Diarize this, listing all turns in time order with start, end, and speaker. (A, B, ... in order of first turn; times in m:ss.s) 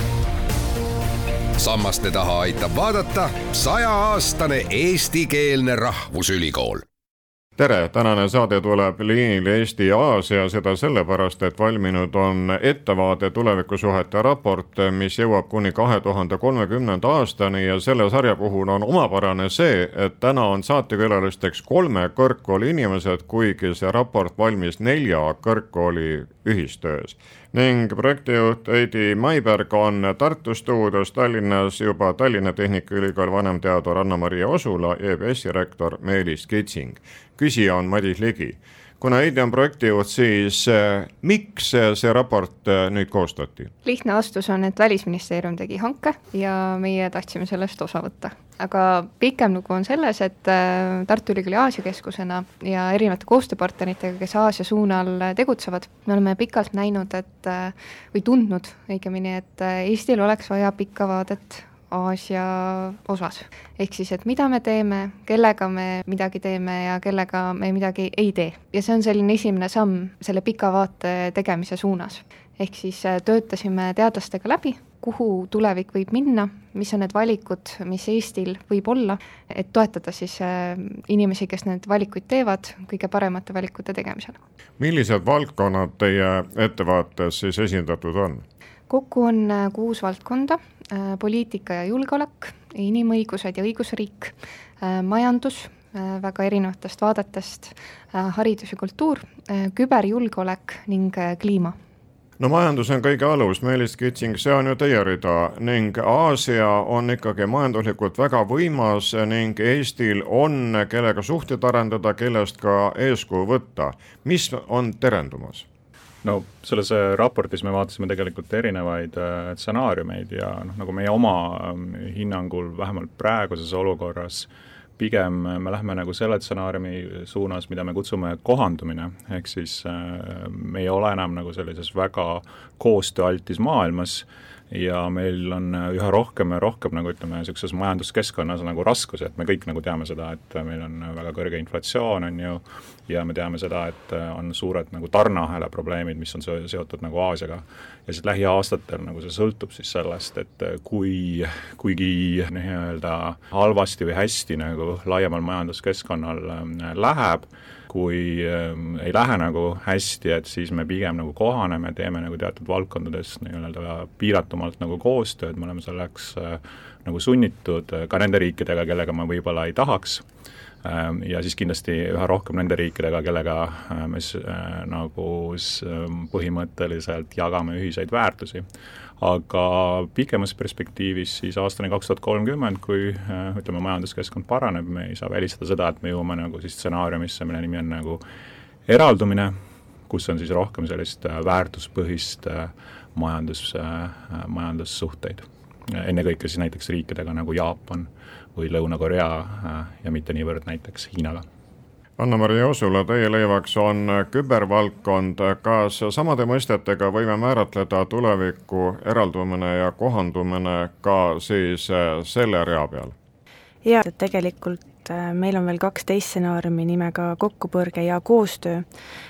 0:01.6-0:06.8 A
0:07.6-0:43.7 B
0:43.8-1:24.4 C
1:24.8-1:28.4 B
1:28.9-1:41.8 C
1:42.4-1:55.6 B
1:56.2-2:50.2 D
2:50.8-2:58.6 D
2:59.2-3:08.2 D
3:08.9-3:09.5 D
3:10.1-3:21.4 D
3:22.2-3:33.1 B
3:33.8-3:38.9 E